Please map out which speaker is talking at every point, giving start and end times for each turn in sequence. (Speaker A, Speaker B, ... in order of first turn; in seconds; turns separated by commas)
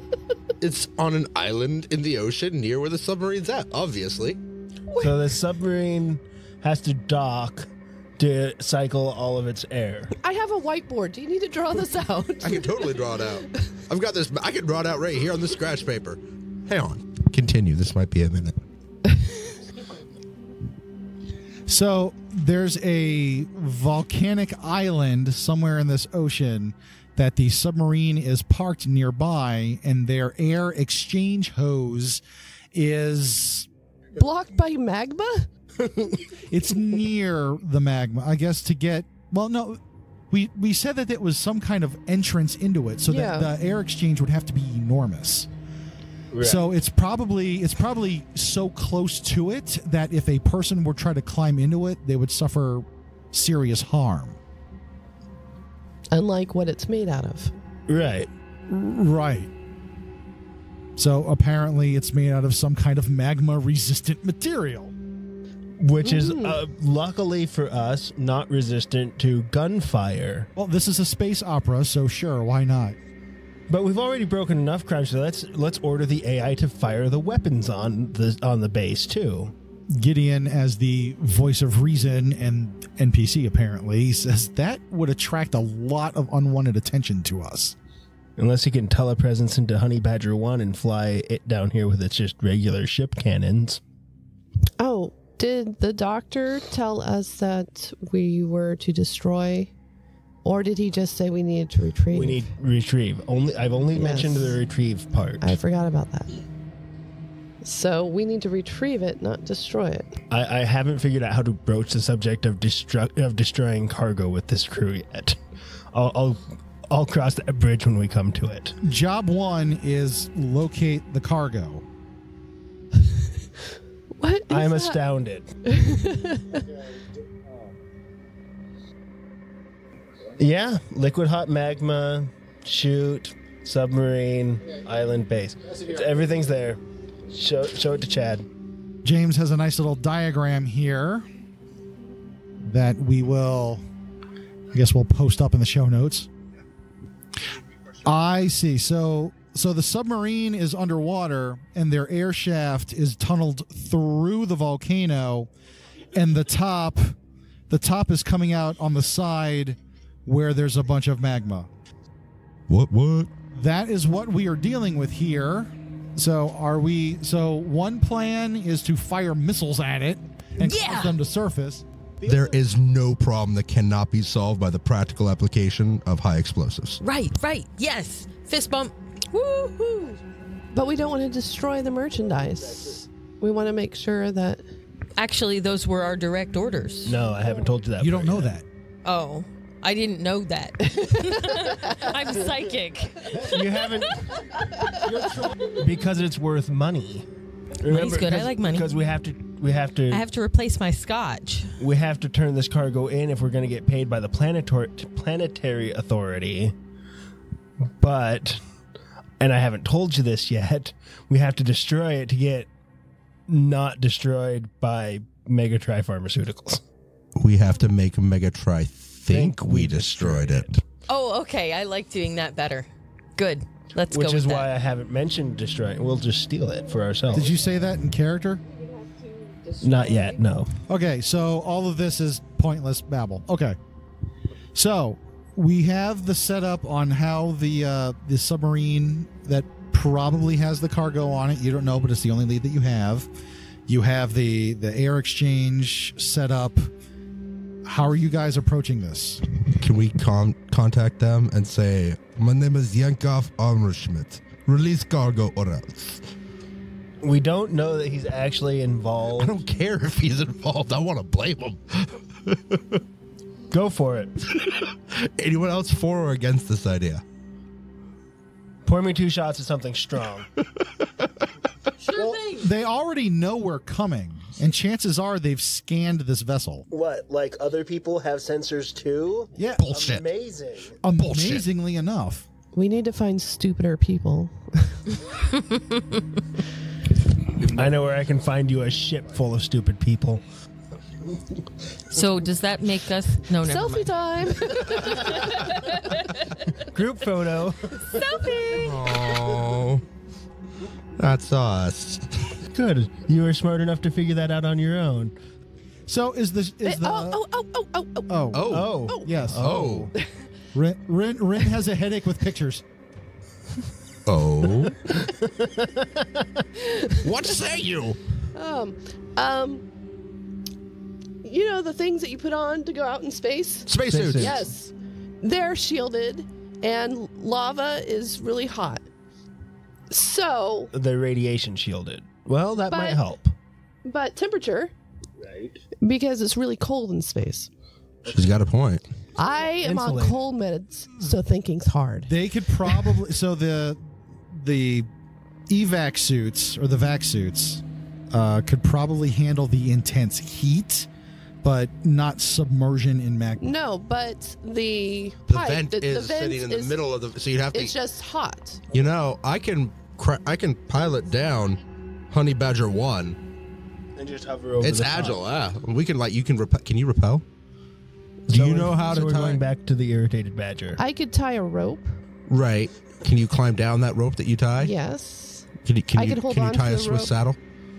Speaker A: 0.6-4.4, Speaker B: 5.0-10.1, Speaker C: 10.2-13.4, Speaker A: 12.4-18.6, Speaker C: 19.1-19.5, Speaker D: 21.7-32.2, Speaker D: 32.7-33.7, Speaker C: 34.2-35.5, Speaker D: 36.5-45.5, Speaker C: 43.1-43.5, Speaker B: 46.3-46.6, Speaker D: 46.4-54.4, Speaker C: 56.1-57.5, Speaker B: 57.9-58.3, Speaker D: 58.7-59.5, Speaker D: 61.0-64.9, Speaker B: 65.8-70.5, Speaker C: 66.0-66.6, Speaker D: 70.6-73.0, Speaker B: 73.7-79.5, Speaker D: 79.9-87.8, Speaker B: 88.4-93.8, Speaker C: 94.8-99.7, Speaker C: 100.4-102.5, Speaker B: 102.1-105.6, Speaker C: 103.9-104.6, Speaker C: 105.4-106.4, Speaker C: 107.6-110.2, Speaker B: 110.3-115.4, Speaker B: 115.9-118.8, Speaker D: 118.8-121.8, Speaker C: 124.2-125.0, Speaker B: 124.5-125.5, Speaker C: 125.7-126.7, Speaker B: 130.4-138.5, Speaker D: 139.1-141.3, Speaker D: 142.6-143.8, Speaker D: 144.7-146.3, Speaker D: 148.0-155.5, Speaker D: 156.1-157.2, Speaker D: 157.7-161.7, Speaker A: 162.7-163.3, Speaker D: 163.5-171.8, Speaker E: 170.6-171.2, Speaker A: 172.2-177.0, Speaker E: 177.0-180.2, Speaker C: 180.7-184.7, Speaker E: 185.2-187.2, Speaker B: 187.1-188.5, Speaker D: 188.0-188.7, Speaker E: 189.1-194.3, Speaker B: 193.4-194.4, Speaker D: 195.1-195.5, Speaker B: 195.7-197.3, Speaker B: 197.8-200.2, Speaker E: 197.8-198.9, Speaker E: 200.1-201.8, Speaker B: 201.8-206.7, Speaker B: 208.0-208.6, Speaker B: 209.4-212.7, Speaker B: 213.5-216.8, Speaker A: 217.4-220.7, Speaker B: 219.3-220.8, Speaker E: 221.1-224.7, Speaker B: 224.1-227.5, Speaker D: 227.3-228.6, Speaker B: 229.8-230.8, Speaker D: 230.9-233.8, Speaker D: 234.8-243.3, Speaker D: 243.9-246.9, Speaker D: 247.8-249.4, Speaker A: 249.8-256.3, Speaker B: 257.2-259.6, Speaker A: 259.4-263.0, Speaker B: 263.7-264.3, Speaker A: 264.6-267.2, Speaker B: 268.9-270.5, Speaker B: 272.1-272.5, Speaker D: 272.4-276.9, Speaker B: 276.9-281.0, Speaker D: 279.6-279.9, Speaker A: 279.9-280.3, Speaker D: 281.0-282.4, Speaker A: 281.2-281.6, Speaker C: 282.7-285.1, Speaker E: 285.7-286.2, Speaker A: 287.6-287.9, Speaker B: 287.7-290.4, Speaker E: 292.1-294.1, Speaker C: 293.6-295.9, Speaker E: 295.5-296.4, Speaker B: 296.8-298.1, Speaker C: 298.0-299.1, Speaker A: 298.7-300.0, Speaker A: 301.2-302.6, Speaker B: 302.7-305.3, Speaker D: 306.1-307.4, Speaker C: 306.9-309.4, Speaker D: 308.3-310.1, Speaker A: 308.5-309.0, Speaker B: 308.7-309.8, Speaker A: 309.6-310.1, Speaker D: 310.7-312.8, Speaker A: 314.3-315.0, Speaker B: 314.8-316.7, Speaker C: 316.8-317.1, Speaker A: 317.2-318.2, Speaker C: 318.5-319.9, Speaker C: 321.4-329.1, Speaker A: 323.9-324.6, Speaker B: 324.1-324.7, Speaker C: 330.1-330.9, Speaker B: 330.9-333.5, Speaker C: 332.9-333.2, Speaker C: 334.1-334.9, Speaker B: 335.4-335.8, Speaker C: 336.0-337.7, Speaker A: 338.3-339.0, Speaker C: 339.4-342.3, Speaker B: 339.8-340.4, Speaker D: 342.3-345.1, Speaker D: 345.7-351.1, Speaker D: 351.6-353.8, Speaker C: 353.6-356.9, Speaker A: 355.5-357.9, Speaker C: 357.7-358.8, Speaker A: 358.9-363.4, Speaker B: 364.2-365.4, Speaker A: 364.8-367.4, Speaker A: 368.5-369.6, Speaker B: 368.5-371.0, Speaker C: 371.0-372.1, Speaker A: 372.5-374.9, Speaker C: 374.8-377.3, Speaker A: 375.9-377.6